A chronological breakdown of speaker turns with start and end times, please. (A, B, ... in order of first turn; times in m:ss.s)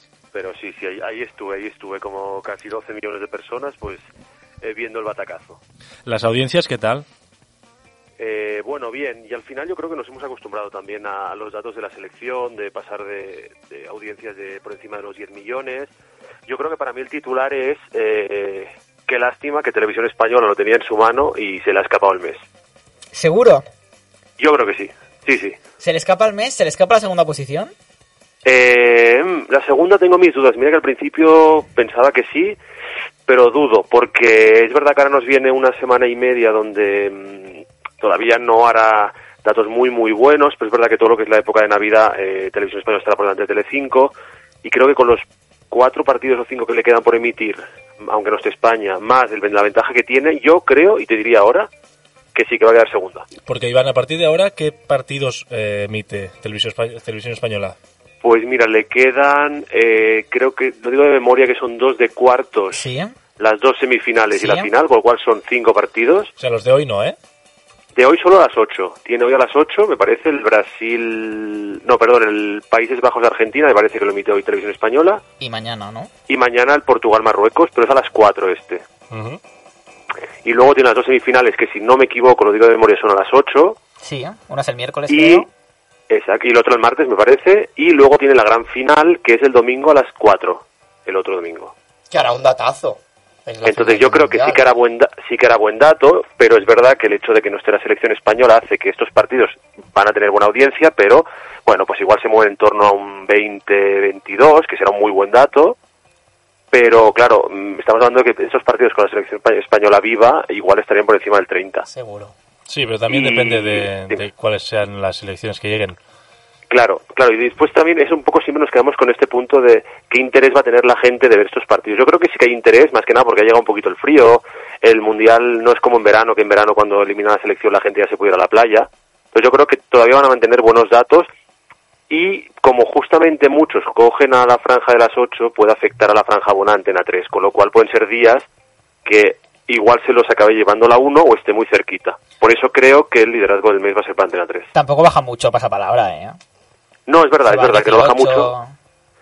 0:00.3-0:04.0 A
0:04.6-0:05.6 A
0:06.1-0:07.1 B
0:08.2-0:15.9 A
0:16.5-0:22.4 A
0:23.1-0:23.6 C
0:24.4-0:25.6 A
0:25.8-0:27.7 C
0:28.4-0:32.6 A
0:33.3-0:51.7 A
0:52.4-0:53.3 A
0:53.4-0:57.8 B
0:58.2-1:02.8 A
1:02.7-1:03.1 C
1:03.4-1:06.3 A
1:04.4-1:04.7 C
1:06.4-1:07.2 B
1:08.0-1:15.2 A
1:15.4-1:16.1 C
1:16.3-1:18.8 A
1:19.1-1:19.4 B
1:20.4-1:23.8 A
1:24.0-1:25.5 C
1:25.1-1:25.5 A
1:26.1-1:31.7 A
1:32.1-1:34.6 D
1:33.7-1:45.8 A
1:46.7-1:51.9 A
1:51.9-1:52.3 D
1:52.7-1:56.0 B
1:53.1-1:54.2 A
1:56.7-2:11.3 A
2:12.1-2:18.5 A
2:19.0-2:24.7 A
2:24.7-2:26.4 C
2:27.1-2:28.5 A
2:27.5-2:28.7 C